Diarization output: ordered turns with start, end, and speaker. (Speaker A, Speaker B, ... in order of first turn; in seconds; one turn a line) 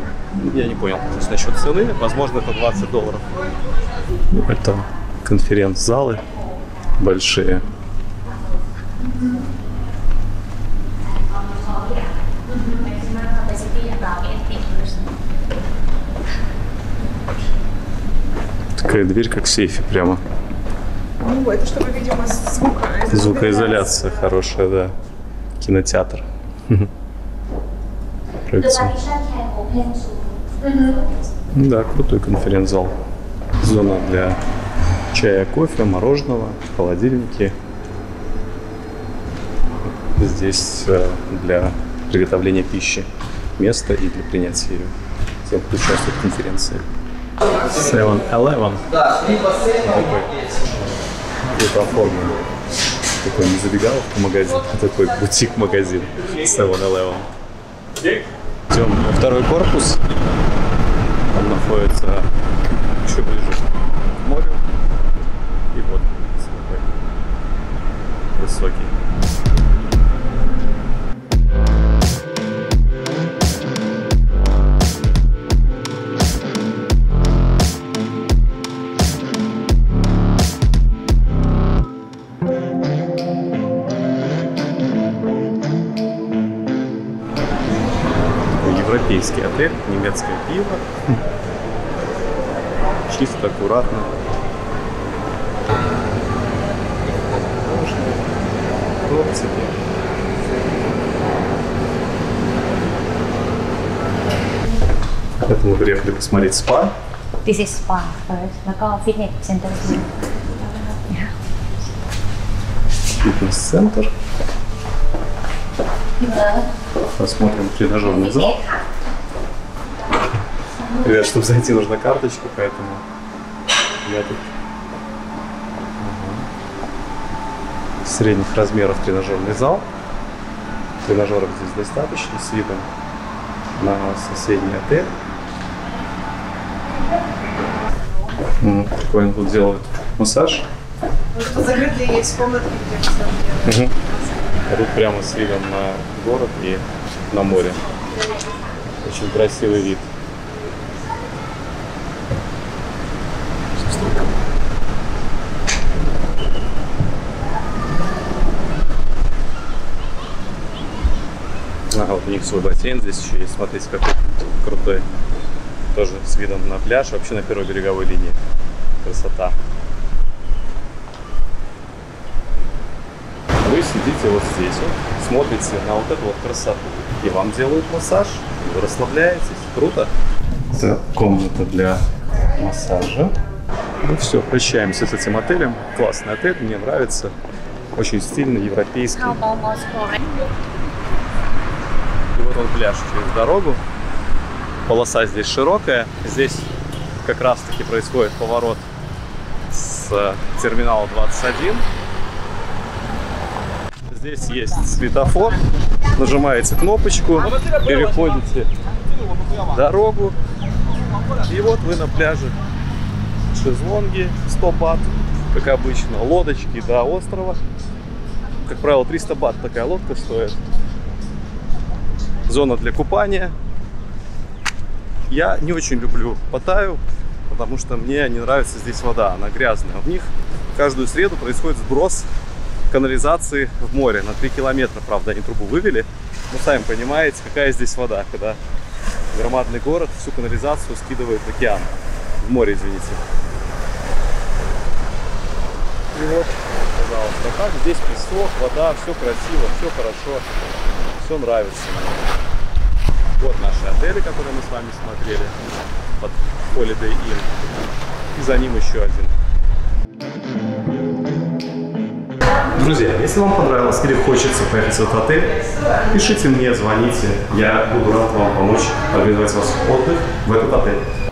Speaker A: 0.3-3.2
Speaker A: 4.3-6.3
Speaker A: 7.0-7.6
Speaker B: 11.1-15.2
Speaker A: 18.8-20.2
Speaker C: 21.2-23.1
Speaker A: 23.1-24.9
Speaker A: 25.6-26.9
Speaker A: 28.4-29.0
Speaker B: 28.9-31.0
Speaker A: 31.5-33.0
Speaker A: 33.6-34.4
Speaker A: 35.1-37.5
Speaker A: 40.1-44.9
Speaker A: 45.4-46.8
Speaker A: 47.7-48.8
Speaker A: 49.8-50.3
Speaker A: 51.5-52.4
Speaker A: 53.2-57.3
Speaker A: 58.7-60.0
Speaker A: 61.3-62.3
Speaker A: 63.0-63.6
Speaker A: 64.2-64.6
Speaker A: 65.7-66.9
Speaker A: 68.3-68.9
Speaker A: 88.6-91.2
Speaker A: 93.1-94.1
Speaker A: 97.1-98.4
Speaker A: 98.9-99.8
Speaker A: 105.4-106.9
Speaker B: 107.4-110.1
Speaker B: 110.6-111.3
Speaker A: 113.2-114.1
Speaker B: 116.2-116.6
Speaker A: 117.0-118.6
Speaker A: 120.9-123.0
Speaker A: 124.0-124.5
Speaker A: 126.0-126.5
Speaker A: 128.0-129.9
Speaker A: 131.0-132.9
Speaker A: 133.8-135.1
Speaker A: 138.6-140.7
Speaker C: 141.4-143.6
Speaker A: 143.6-143.9
Speaker A: 144.7-147.8
Speaker A: 149.0-150.1
Speaker A: 161.9-165.1
Speaker A: 165.9-168.4
Speaker A: 169.0-169.6
Speaker A: 173.6-180.1
Speaker A: 180.7-182.0
Speaker A: 182.6-183.3
Speaker A: 184.0-187.3
Speaker A: 187.9-189.4
Speaker B: 189.4-190.2
Speaker A: 192.3-193.8
Speaker A: 194.9-196.7
Speaker A: 197.2-198.8
Speaker A: 199.7-201.8
Speaker A: 204.1-205.6
Speaker A: 206.1-208.7
Speaker A: 209.6-210.3
Speaker A: 211.4-212.5
Speaker A: 213.5-217.6
Speaker A: 218.6-220.6
Speaker A: 222.5-223.6
Speaker A: 225.3-232.3
Speaker A: 232.9-238.6
Speaker A: 239.3-243.2
Speaker A: 246.1-250.4
Speaker A: 251.2-252.3
Speaker A: 253.4-255.5
Speaker A: 256.2-257.7
Speaker A: 258.3-259.3
Speaker A: 262.7-265.5
Speaker A: 266.1-271.0